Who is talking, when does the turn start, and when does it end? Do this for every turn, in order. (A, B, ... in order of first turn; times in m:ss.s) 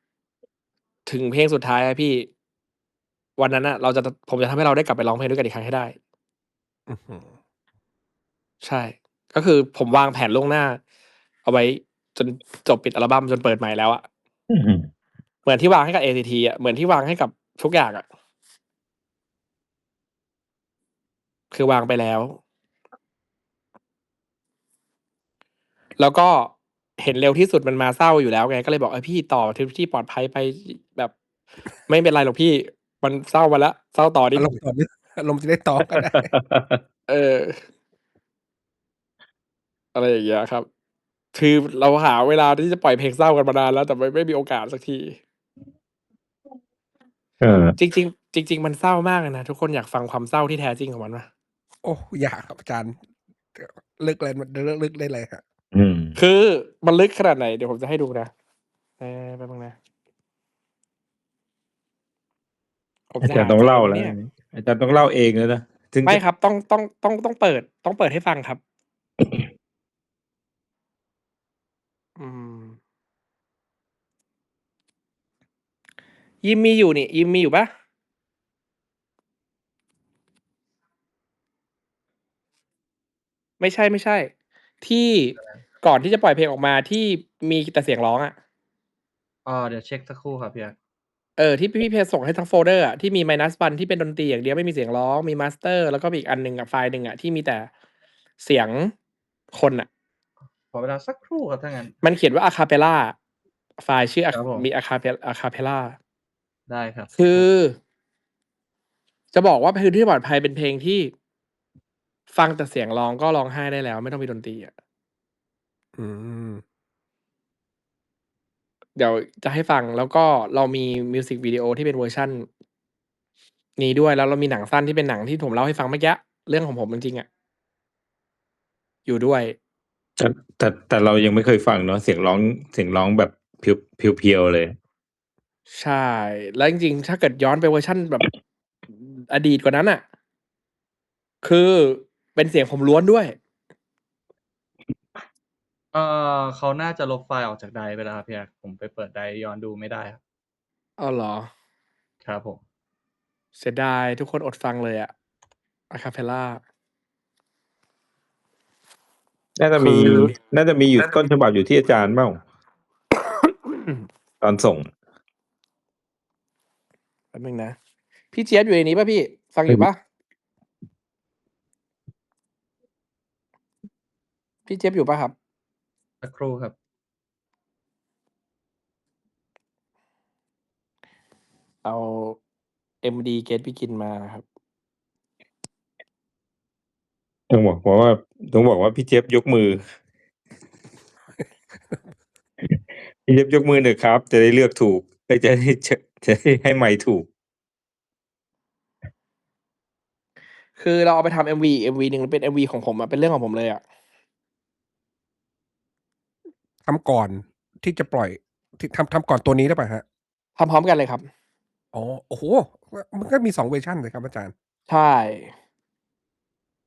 0:01.0-0:02.3 A
0:03.4-0:06.0 A
0:06.9-0:07.4 B
0:08.6-0:10.8 A
0:11.4-0:14.0 A
0:14.5-0:14.9 C
0:15.4-0:18.0 A
0:21.5-0:22.4 A
0:26.0-0:31.1 A
0:31.9-0:34.5 A
0:34.3-0:36.3 B
0:35.9-0:36.8 C
0:37.1-0:37.6 A
0:39.9-0:40.7 A
0:41.3-0:45.2 A
0:47.4-0:47.8 C
0:47.8-0:51.3 A
0:51.8-0:53.0 B
0:53.5-0:55.4 B
0:55.7-0:56.2 C
0:56.2-0:58.3 A
0:59.0-0:59.8 A
1:03.1-1:04.1 A
1:03.2-1:06.2 C
1:06.0-1:08.6 A
1:12.2-1:12.8 A
1:16.4-1:17.7 A
1:23.6-1:24.3 A
1:24.8-1:28.3 A
1:29.4-1:30.7 D
1:31.4-1:37.7 A
1:38.4-1:38.9 A
1:39.5-1:39.9 A
1:40.7-1:42.0 D
1:42.0-1:43.2 A
1:43.8-1:46.0 A
1:44.3-1:44.7 D
1:46.7-1:47.4 D
1:47.2-1:47.8 A
1:49.3-1:51.1 A
1:52.3-1:54.7 A
1:56.0-1:56.6 B
1:59.0-2:02.4 A
2:03.8-2:07.2 A
2:09.0-2:09.6 A
2:10.2-2:14.8 C
2:15.7-2:18.2 A
2:19.3-2:20.0 A
2:21.4-2:23.4 A
2:25.9-2:30.2 D
2:31.0-2:31.5 A
2:32.2-2:32.6 D
2:33.6-2:35.1 A
2:35.9-2:36.6 A
2:39.6-2:42.4 C
2:39.8-2:40.3 A
2:44.4-2:44.9 C
2:47.3-2:47.8 A
2:48.3-2:50.0 A
2:54.7-2:55.3 A
2:56.2-2:56.7 D
3:01.8-3:02.4 A
3:03.0-3:04.4 A
3:07.5-3:09.8 C
3:11.4-3:12.2 B
3:12.7-3:17.3 C
3:20.8-3:23.8 A
3:26.8-3:30.0 B
3:30.6-3:31.2 A
3:31.9-3:34.5 B
3:34.9-3:35.5 A